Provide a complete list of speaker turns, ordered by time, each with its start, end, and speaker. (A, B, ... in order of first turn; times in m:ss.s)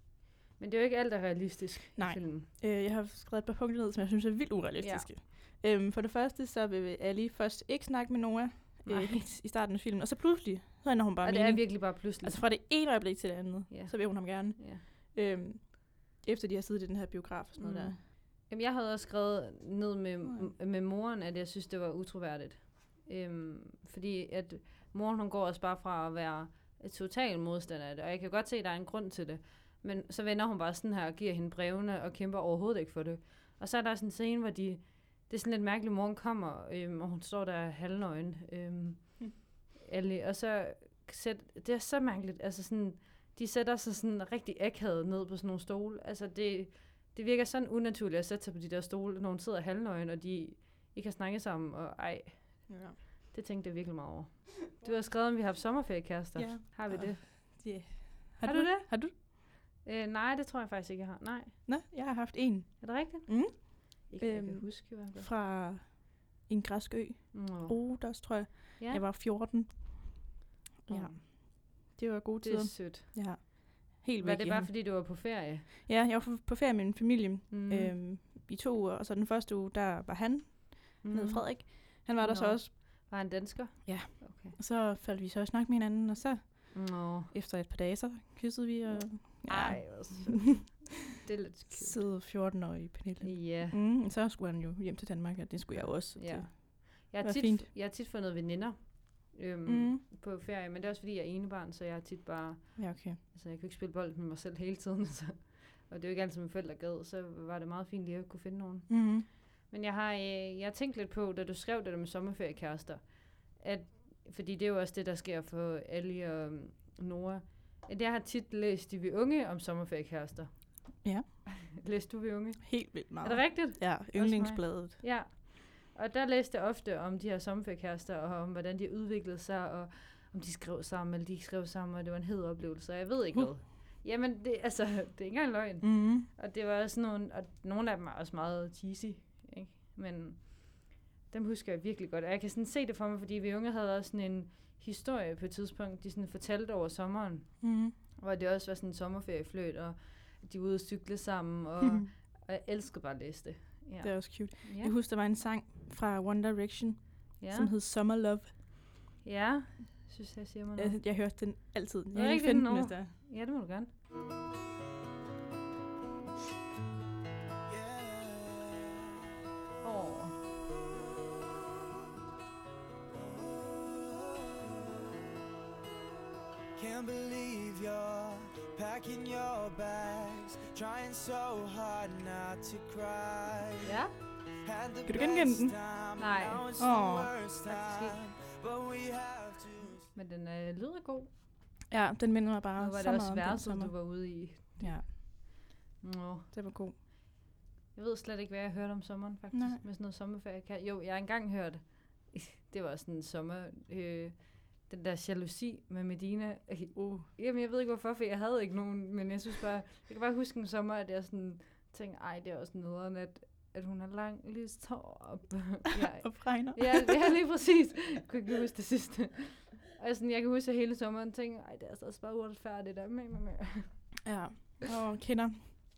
0:00.6-0:02.5 A
0:02.0-0:18.0 B
0:04.8-0:05.1 A
0:08.8-0:09.3 A
0:11.2-0:12.4 A
0:13.7-0:14.8 A
0:17.6-0:57.6 A
0:52.7-0:53.0 B
0:56.4-0:59.1 B
0:58.4-1:01.7 A
1:01.7-1:10.2 B
1:02.8-1:05.3 A
1:07.3-1:09.0 A
1:10.9-1:14.8 B
1:10.9-1:11.6 A
1:12.4-1:13.6 A
1:14.2-1:15.7 A
1:15.9-1:22.7 B
1:17.5-1:18.0 A
1:21.0-1:24.6 A
1:23.9-1:30.6 B
1:26.7-1:27.3 A
1:29.2-1:32.0 A
1:31.7-1:37.7 B
1:33.2-1:33.8 A
1:36.1-2:01.0 A
1:39.7-1:40.0 B
1:42.8-1:43.2 B
1:48.9-1:49.3 B
2:01.6-2:34.9 A
2:02.6-2:05.0 B
2:15.8-2:16.3 B
2:27.6-2:27.9 B
2:31.8-2:32.1 B
2:34.0-2:38.5 B
2:37.4-2:37.7 A
2:39.2-2:41.0 A
2:40.8-2:43.1 B
2:42.1-2:43.9 A
2:47.7-2:49.2 C
2:49.8-2:50.4 A
2:53.1-2:55.1 C
2:56.8-3:04.0 C
3:03.8-3:04.1 A
3:04.6-3:10.1 C
3:05.1-3:05.8 B
3:06.2-3:06.7 A
3:06.8-3:07.3 B
3:07.6-3:08.2 A
3:10.1-3:11.3 A
3:11.9-3:15.1 B
3:12.8-3:17.0 A
3:16.5-3:17.0 B
3:17.9-3:44.2 A
3:19.5-3:19.8 B
3:27.0-3:27.3 B
3:36.2-3:37.3 B
3:44.2-3:45.7 B